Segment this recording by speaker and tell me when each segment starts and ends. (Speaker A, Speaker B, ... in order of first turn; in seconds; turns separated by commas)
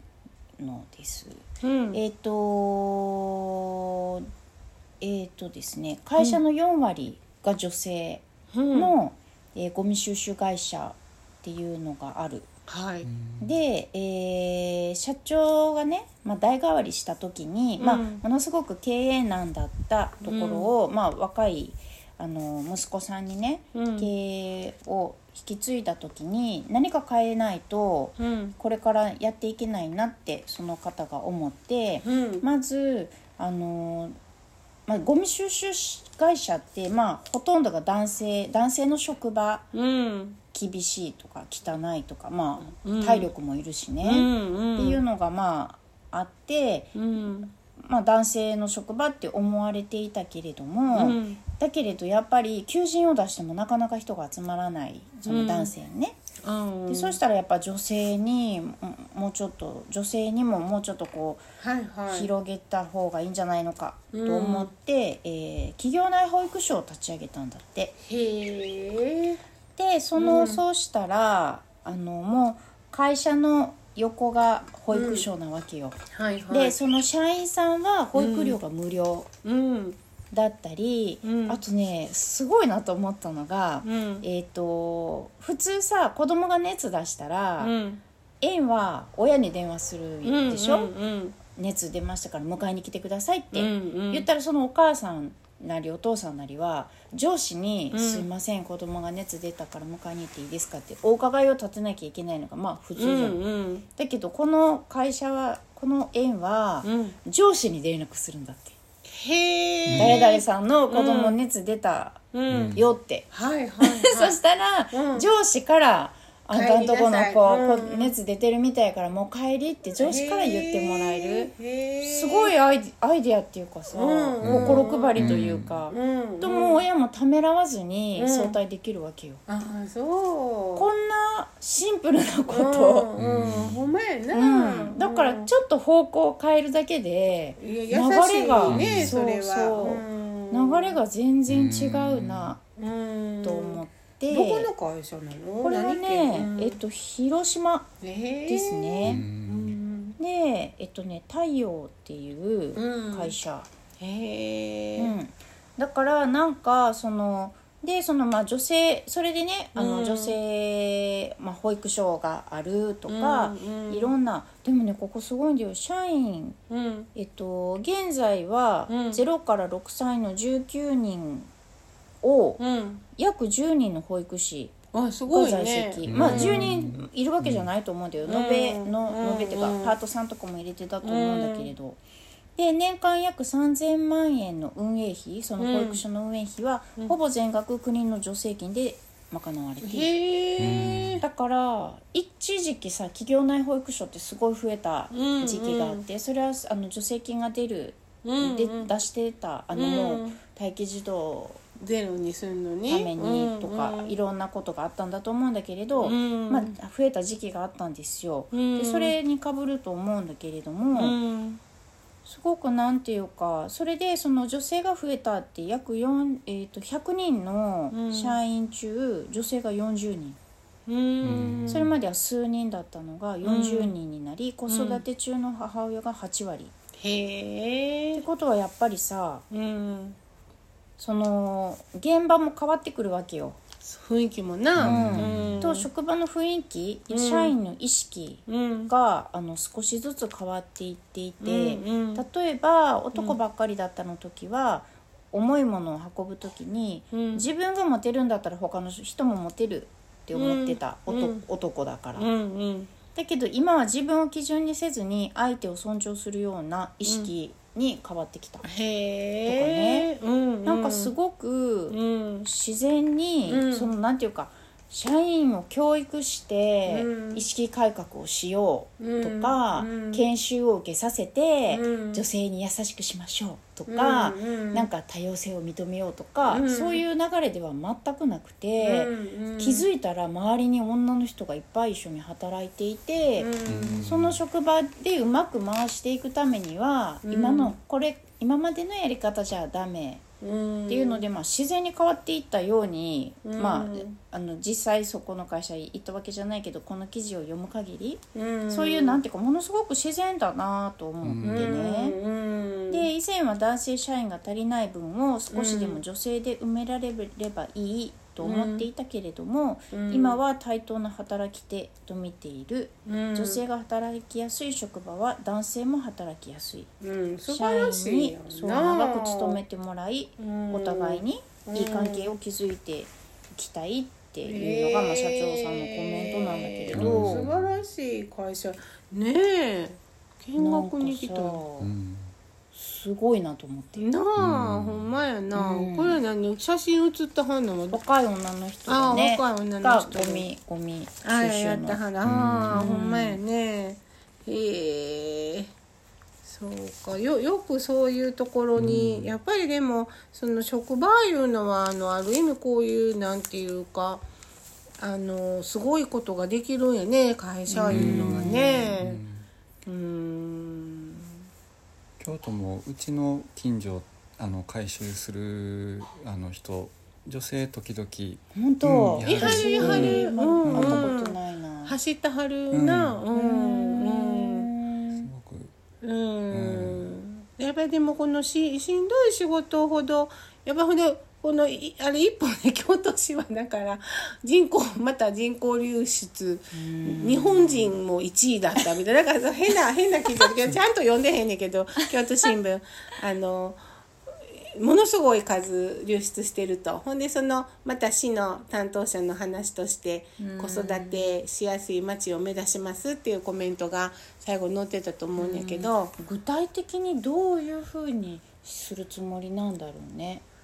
Speaker A: 0.6-1.4, Speaker B: 1.6-2.0, Speaker A: 1.9-4.3, Speaker A: 5.0-12.5, Speaker B: 8.5-8.9, Speaker B: 12.7-13.1, Speaker C: 13.0-13.5, Speaker A: 13.4-34.1, Speaker B: 17.8-18.2, Speaker B: 20.2-20.7, Speaker B: 23.7-24.1, Speaker B: 28.2-28.6, Speaker B: 32.0-32.4, Speaker A: 34.9-39.7, Speaker B: 39.7-40.4, Speaker A: 40.5-47.0, Speaker B: 42.7-43.3, Speaker B: 44.0-45.0, Speaker B: 47.0-47.5, Speaker A: 47.8-56.2, Speaker B: 50.9-51.4, Speaker B: 55.2-55.7, Speaker B: 56.4-57.2, Speaker A: 56.9-61.4, Speaker B: 61.6-62.3, Speaker A: 62.1-67.9, Speaker B: 64.1-64.7, Speaker B: 68.0-69.4, Speaker A: 69.8-76.0, Speaker B: 70.2-70.6, Speaker B: 74.9-75.3, Speaker B: 76.1-76.8, Speaker A: 76.5-79.3, Speaker B: 78.1-78.6, Speaker B: 79.4-80.0, Speaker A: 80.3-87.7, Speaker B: 81.2-81.6, Speaker B: 83.8-84.2, Speaker B: 87.6-88.0, Speaker A: 88.4-90.9, Speaker B: 90.2-91.4, Speaker A: 91.5-103.4, Speaker B: 93.5-94.3, Speaker B: 97.9-98.2, Speaker B: 103.0-103.8, Speaker A: 103.9-108.8, Speaker B: 106.8-107.2, Speaker B: 109.1-111.3, Speaker C: 109.9-110.2, Speaker A: 110.0-113.3, Speaker B: 112.3-112.8, Speaker C: 112.5-112.8, Speaker B: 113.3-114.3, Speaker A: 113.8-129.4, Speaker B: 114.9-115.3, Speaker B: 116.5-118.1, Speaker B: 120.0-122.5, Speaker B: 123.9-126.8, Speaker C: 124.4-125.7, Speaker B: 128.2-128.6, Speaker B: 129.5-130.9, Speaker A: 130.8-133.1, Speaker B: 132.5-135.5, Speaker C: 133.2-133.8, Speaker A: 134.3-142.6, Speaker B: 137.6-141.0, Speaker C: 138.7-139.2, Speaker C: 141.5-142.5, Speaker B: 142.8-146.8, Speaker A: 143.4-144.7, Speaker A: 145.6-147.9, Speaker B: 148.0-150.2, Speaker A: 148.5-149.2, Speaker C: 149.0-149.8, Speaker A: 150.2-153.7, Speaker B: 152.8-153.3, Speaker B: 154.0-155.1, Speaker A: 155.0-166.6, Speaker B: 159.7-160.4, Speaker B: 163.1-164.1, Speaker B: 166.7-167.1, Speaker A: 167.1-171.5, Speaker B: 168.9-169.2, Speaker A: 172.2-172.6, Speaker B: 172.6-173.0, Speaker A: 173.2-174.7, Speaker B: 174.9-176.7, Speaker A: 175.3-182.0, Speaker C: 176.1-177.7, Speaker B: 178.3-180.0, Speaker B: 181.0-181.7, Speaker A: 182.6-190.1, Speaker B: 185.6-186.0, Speaker B: 189.8-191.2, Speaker C: 190.6-191.2, Speaker A: 191.2-201.6, Speaker B: 195.1-196.0, Speaker B: 198.2-198.9, Speaker B: 199.7-200.4, Speaker B: 201.8-204.1, Speaker A: 202.9-211.2, Speaker B: 206.0-206.7, Speaker B: 208.5-209.1, Speaker B: 210.9-211.6, Speaker A: 212.2-220.4, Speaker B: 217.9-218.4, Speaker B: 220.9-221.9, Speaker C: 221.2-221.9, Speaker A: 221.7-226.7, Speaker B: 223.4-223.9, Speaker B: 224.7-225.0, Speaker B: 227.0-228.2, Speaker A: 228.2-229.4, Speaker B: 229.5-230.2, Speaker A: 231.0-233.6, Speaker B: 233.8-235.9, Speaker C: 234.8-235.6, Speaker A: 234.8-252.3, Speaker B: 237.1-237.5, Speaker B: 238.5-238.9, Speaker B: 241.4-242.2, Speaker B: 247.1-247.4, Speaker B: 250.3-251.4, Speaker B: 252.2-252.9, Speaker A: 253.1-258.7, Speaker B: 257.0-257.3, Speaker B: 258.6-261.1, Speaker A: 259.4-260.1, Speaker A: 260.6-283.5, Speaker B: 261.9-262.5, Speaker B: 263.5-263.9, Speaker B: 266.9-267.4, Speaker B: 269.0-270.2, Speaker B: 271.7-272.2, Speaker B: 273.9-274.9, Speaker B: 276.4-277.0, Speaker B: 278.8-279.9, Speaker B: 283.4-284.1, Speaker C: 283.7-284.4, Speaker A: 284.0-290.2, Speaker B: 287.2-287.7, Speaker B: 290.4-291.3, Speaker A: 290.9-302.2, Speaker B: 293.4-294.1, Speaker B: 298.3-299.2, Speaker C: 301.2-301.7, Speaker B: 301.4-303.1, Speaker A: 302.9-316.9, Speaker B: 305.5-306.0, Speaker B: 308.4-308.9, Speaker B: 309.9-310.4, Speaker B: 313.1-313.6, Speaker B: 317.0-319.6, Speaker A: 317.5-327.5, Speaker B: 320.4-322.3, Speaker B: 324.4-331.6, Speaker C: 326.9-327.8, Speaker A: 330.6-331.9, Speaker C: 331.8-332.3, Speaker A: 332.7-334.1, Speaker B: 333.9-338.0, Speaker C: 334.4-335.1, Speaker A: 335.5-336.2, Speaker A: 337.9-342.0, Speaker B: 338.9-340.4, Speaker B: 341.2-345.7, Speaker C: 342.2-342.9, Speaker A: 342.7-343.4, Speaker B: 346.4-354.2, Speaker C: 348.8-349.3, Speaker B: 355.0-359.2, Speaker A: 357.7-359.0, Speaker C: 357.9-359.5, Speaker B: 359.9-361.4, Speaker C: 362.2-371.1, Speaker A: 368.5-372.0, Speaker B: 369.2-374.7, Speaker C: 372.7-373.2, Speaker A: 373.3-375.3, Speaker C: 375.2-375.7, Speaker B: 376.0-393.8, Speaker C: 376.5-377.1, Speaker A: 386.7-387.9, Speaker B: 394.7-406.1, Speaker A: 400.4-401.4, Speaker A: 405.4-410.4